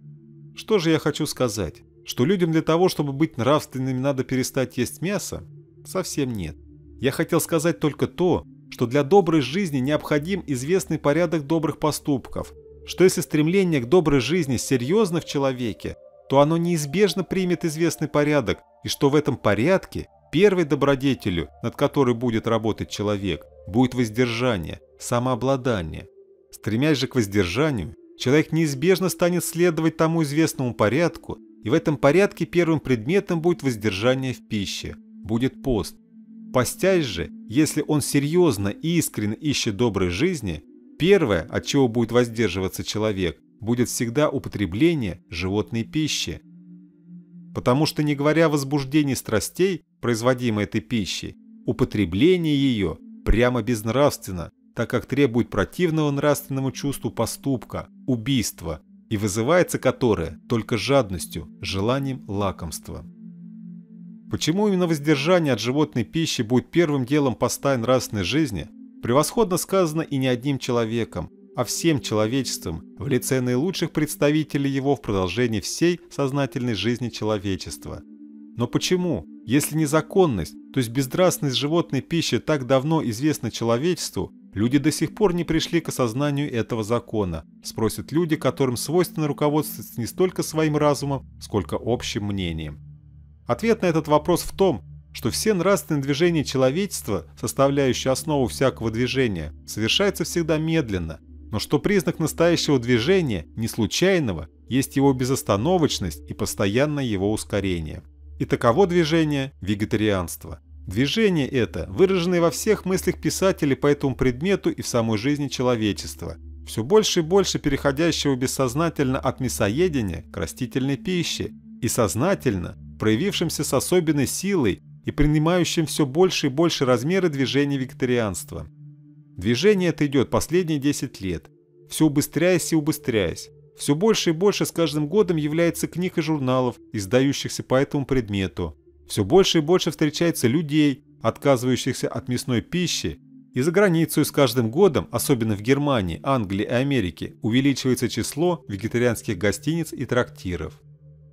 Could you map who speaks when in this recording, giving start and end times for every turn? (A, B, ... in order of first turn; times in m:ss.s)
0:00.5-0:36.0 A
0:36.5-0:46.4 A
0:47.5-1:03.1 A
1:04.3-1:18.0 A
1:18.6-1:32.8 A
1:33.5-2:08.7 A
2:09.4-2:30.8 A